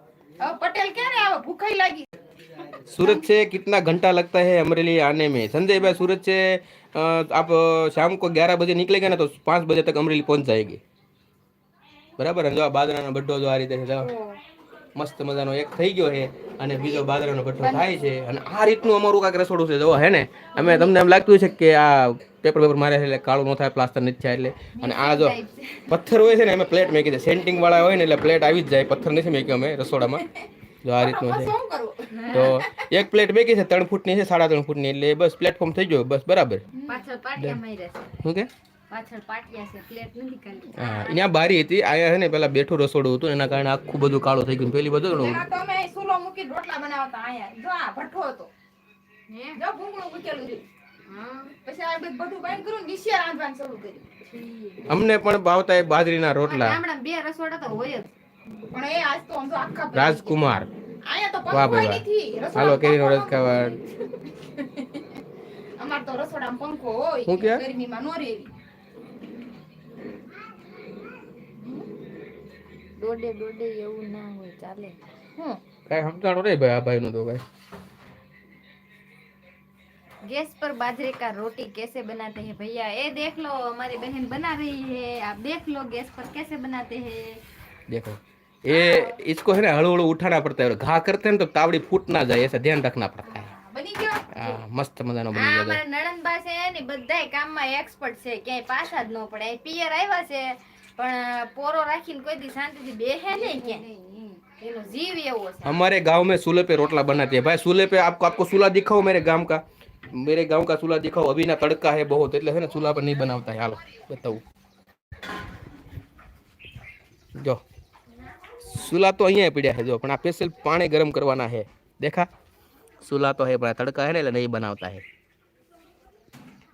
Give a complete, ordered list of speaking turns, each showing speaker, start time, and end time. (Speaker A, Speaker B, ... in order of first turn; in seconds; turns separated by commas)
Speaker A: 0.4-2.1, Speaker B: 2.9-10.8, Speaker B: 12.2-14.1, Speaker A: 14.0-14.3, Speaker B: 14.9-25.4, Speaker C: 24.8-25.9, Speaker B: 25.9-30.2, Speaker B: 30.8-31.5, Speaker A: 31.0-32.5, Speaker C: 32.1-32.6, Speaker B: 32.3-36.6, Speaker A: 36.7-37.0, Speaker C: 36.9-38.1, Speaker B: 38.2-38.5, Speaker C: 38.9-41.1, Speaker B: 40.7-45.4, Speaker A: 45.1-48.5, Speaker C: 49.3-49.6, Speaker A: 49.5-54.7, Speaker B: 54.9-56.8, Speaker C: 56.4-58.1, Speaker A: 58.7-60.4, Speaker B: 59.9-60.7, Speaker A: 61.1-63.8, Speaker B: 61.5-62.0, Speaker B: 62.5-63.8, Speaker A: 64.6-65.0, Speaker A: 65.8-68.5, Speaker B: 67.3-67.6, Speaker C: 73.0-75.6, Speaker B: 75.9-77.4, Speaker C: 80.2-87.4, Speaker B: 87.9-93.5, Speaker A: 88.7-89.1, Speaker A: 93.3-94.4, Speaker B: 94.3-95.8, Speaker C: 95.3-105.8, Speaker A: 103.3-104.2, Speaker B: 105.6-114.4, Speaker B: 117.3-117.6, Speaker B: 118.6-122.3, Speaker B: 123.0-125.0